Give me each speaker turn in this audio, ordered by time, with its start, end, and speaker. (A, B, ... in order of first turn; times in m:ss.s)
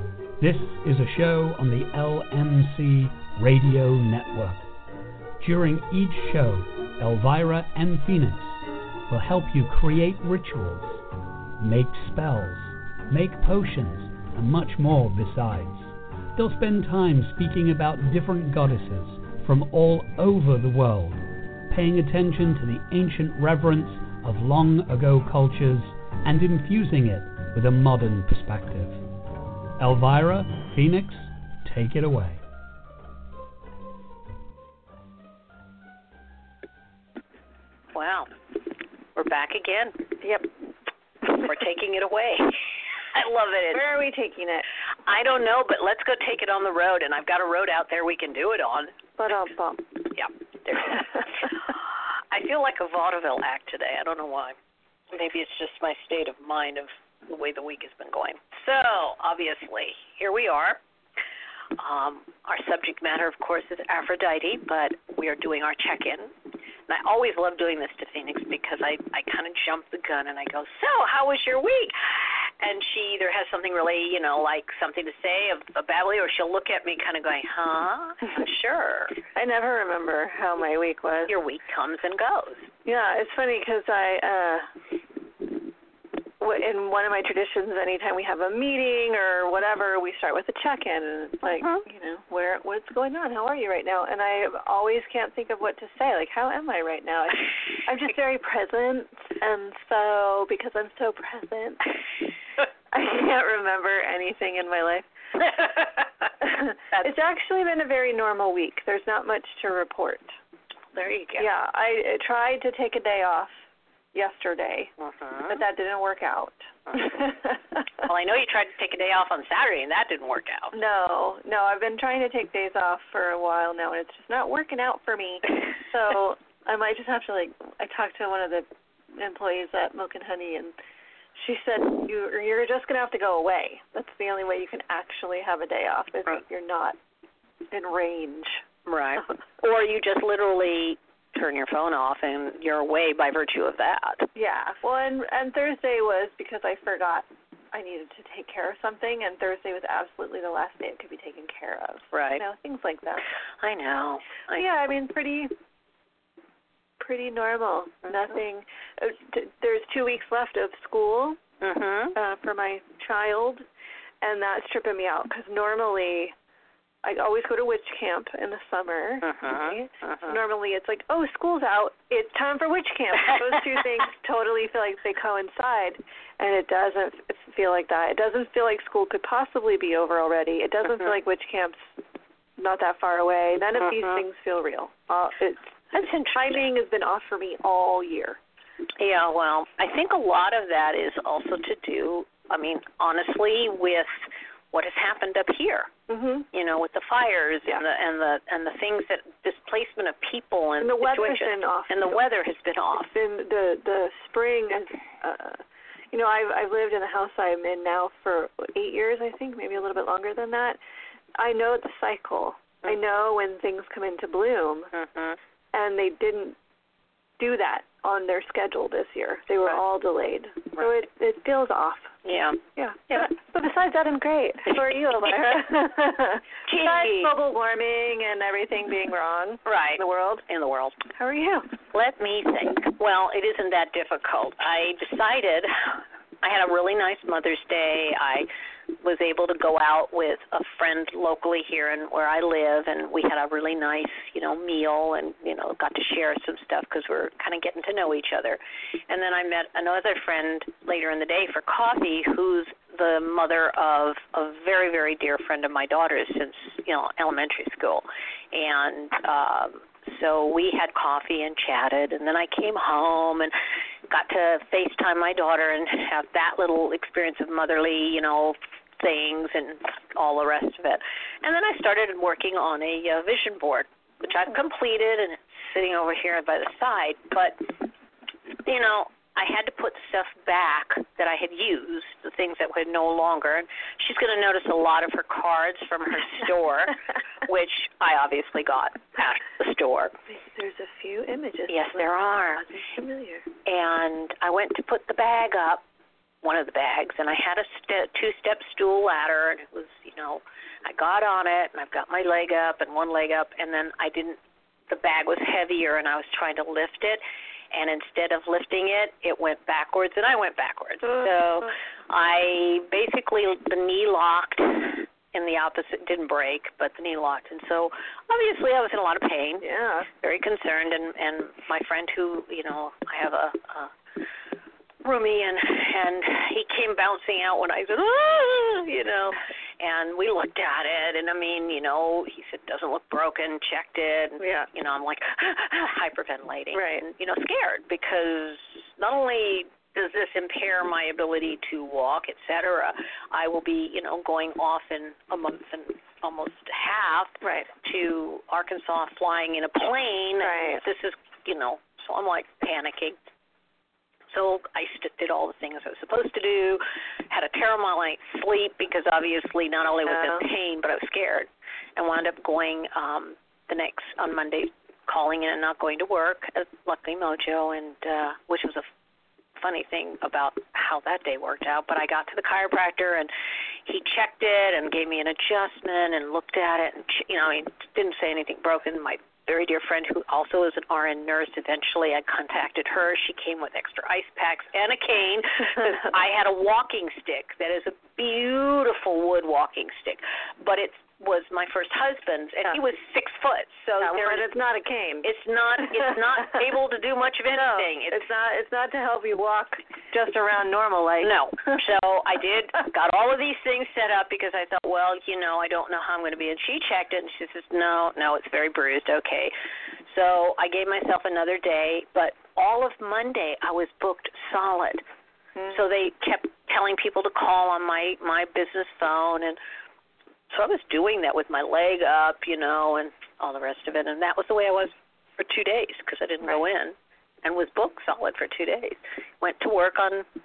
0:00.4-0:04.6 A
0:05.4-0:08.6 A
0:09.1-0:11.0 A
0:11.6-0:29.0 A
0:29.8-0:32.4 A
0:37.9-0:38.3 B
0:39.1-0:40.0 B
0:41.3-0:42.6 B
0:43.1-0:43.8 B
0:43.7-0:44.6 C
0:45.1-0:49.0 B
0:49.2-0:49.8 C
0:50.1-0:51.7 B
0:52.3-0:54.6 B
0:55.1-1:00.8 B
1:01.8-1:06.3 B
1:06.9-1:12.0 B
1:12.6-1:19.2 B
1:19.3-1:21.3 C
1:21.3-1:22.7 B
1:22.8-1:24.7 C
1:26.4-1:41.9 C
1:42.9-1:45.8 C
1:46.4-1:50.3 C
1:50.9-1:51.5 B
1:51.4-1:53.5 C
1:54.1-1:54.9 C
1:55.0-1:55.6 B
1:55.5-1:57.9 C
1:58.0-2:00.7 B
2:00.7-2:10.7 C
2:11.4-2:17.0 C
2:17.7-2:18.6 C
2:18.8-2:24.3 B
2:24.4-2:33.2 C
2:32.1-2:32.4 B
2:33.6-2:34.6 B
2:34.5-2:35.5 C
2:37.0-2:41.4 C
2:41.6-2:42.2 B
2:42.2-2:43.6 C
2:44.2-2:46.3 C
2:47.0-3:01.9 C
2:49.2-2:50.4 B
3:02.6-3:05.8 C
3:05.9-3:06.6 B
3:06.3-3:08.4 C
3:09.0-3:15.9 B
3:16.1-3:16.5 C
3:16.5-3:23.1 B
3:20.8-3:22.2 C
3:23.1-3:25.6 C
3:26.1-3:30.8 C
3:31.4-3:34.9 C
3:34.9-3:35.4 B
3:35.7-3:36.6 C
3:37.4-3:42.1 C
3:42.2-3:43.3 B
3:42.8-3:50.4 C
3:44.7-3:45.6 B
3:46.6-3:47.3 B
3:49.6-3:51.0 B
3:51.1-3:51.7 C
3:51.9-3:58.5 B
3:59.0-4:23.5 B
4:24.1-4:37.7 B
4:38.6-4:50.1 B
4:50.3-4:53.5 C
4:51.7-4:52.7 B
4:53.6-4:55.8 B
4:56.4-5:04.4 B
5:04.9-5:19.6 B
5:19.6-5:20.1 C
5:20.2-5:23.9 B
5:25.0-5:53.2 B
5:34.4-5:34.7 C
5:36.7-5:37.0 C
5:47.4-5:47.7 C
5:50.4-5:50.8 C
5:54.3-6:08.9 B
6:00.0-6:00.4 C
6:09.6-6:13.3 B
6:13.8-6:34.5 B
6:34.0-6:35.2 C
6:35.2-6:38.2 B
6:37.5-6:41.7 C
6:41.2-6:49.5 B
6:50.1-6:55.0 B
6:55.7-6:59.6 B
7:00.5-7:10.3 B